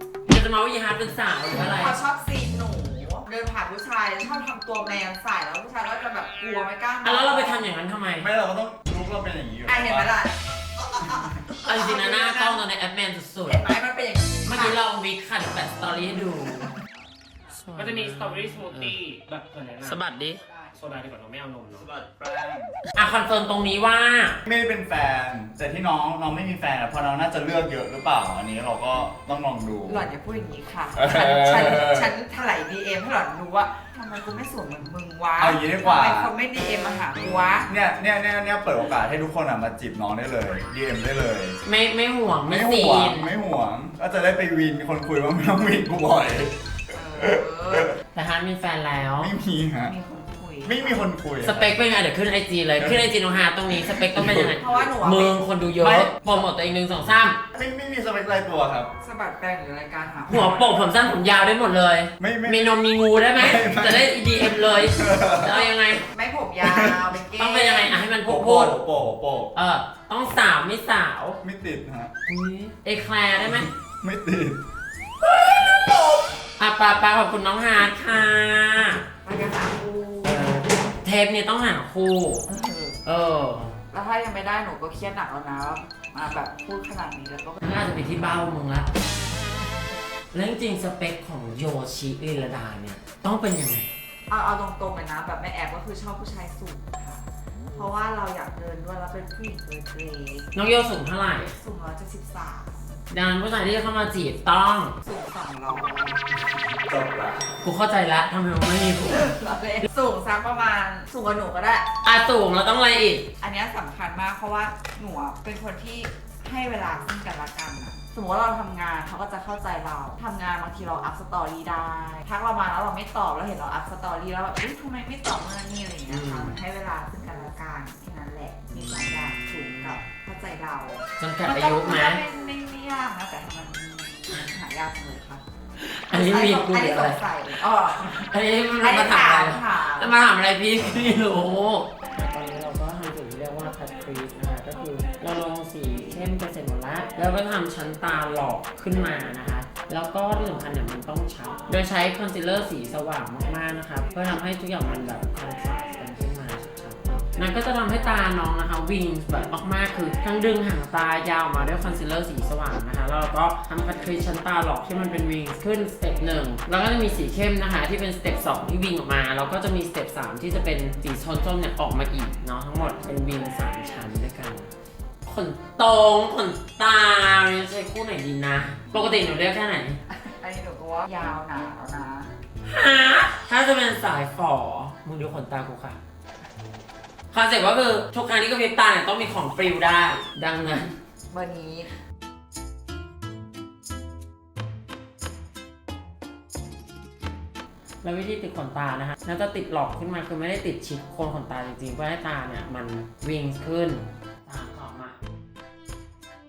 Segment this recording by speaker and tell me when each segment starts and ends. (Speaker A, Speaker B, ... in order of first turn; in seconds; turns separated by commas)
Speaker A: 0.3-2.0, Speaker B: 1.6-7.7, Speaker A: 7.0-8.3, Speaker C: 8.2-10.1, Speaker B: 9.7-12.6, Speaker A: 11.6-13.6, Speaker B: 13.5-14.8, Speaker A: 14.4-16.7, Speaker A: 17.5-19.0, Speaker D: 17.8-20.0, Speaker A: 19.8-20.4, Speaker B: 20.4-20.7, Speaker D: 20.8-21.9, Speaker C: 21.7-22.7, Speaker A: 22.9-24.4, Speaker C: 24.5-30.1, Speaker B: 29.9-37.7, Speaker C: 31.0-32.1, Speaker C: 35.4-36.3, Speaker C: 37.7-41.6, Speaker A: 41.6-43.3, Speaker C: 42.5-46.5, Speaker B: 46.9-48.0, Speaker C: 47.1-48.0, Speaker A: 48.1-49.3, Speaker C: 49.2-49.9, Speaker B: 49.8-51.1, Speaker C: 50.6-51.8, Speaker A: 51.4-57.4, Speaker C: 53.8-54.9, Speaker B: 54.6-55.4, Speaker C: 55.8-56.5, Speaker C: 57.5-58.9, Speaker B: 59.0-60.8, Speaker A: 60.3-66.0, Speaker C: 62.2-62.8, Speaker C: 63.4-65.6, Speaker B: 65.5-68.2, Speaker C: 66.6-67.1, Speaker A: 67.4-68.8, Speaker C: 68.2-69.5, Speaker A: 69.5-71.4, Speaker C: 71.4-72.1, Speaker A: 72.3-73.7, Speaker C: 74.0-74.6, Speaker A: 75.2-79.0, Speaker B: 79.2-80.6, Speaker A: 80.2-82.5, Speaker B: 82.5-83.0, Speaker A: 83.0-83.8, Speaker B: 83.9-88.3, Speaker A: 87.6-88.9, Speaker A: 90.3-93.9, Speaker B: 94.3-100.5, Speaker A: 100.5-101.6, Speaker B: 101.5-103.0, Speaker A: 103.1-105.0, Speaker B: 105.0-106.2, Speaker C: 106.9-107.5, Speaker A: 107.6-109.4, Speaker B: 109.1-111.9, Speaker A: 112.0-113.3, Speaker B: 113.4-135.4, Speaker A: 126.1-126.6, Speaker A: 128.7-130.0, Speaker A: 131.2-132.2, Speaker A: 135.8-137.2, Speaker B: 136.1-138.2, Speaker A: 137.9-174.7, Speaker B: 138.8-140.2, Speaker A: 175.2-180.0, Speaker B: 180.2-182.3, Speaker A: 182.7-186.0, Speaker A: 187.3-190.9, Speaker B: 191.3-191.9, Speaker A: 198.0-205.2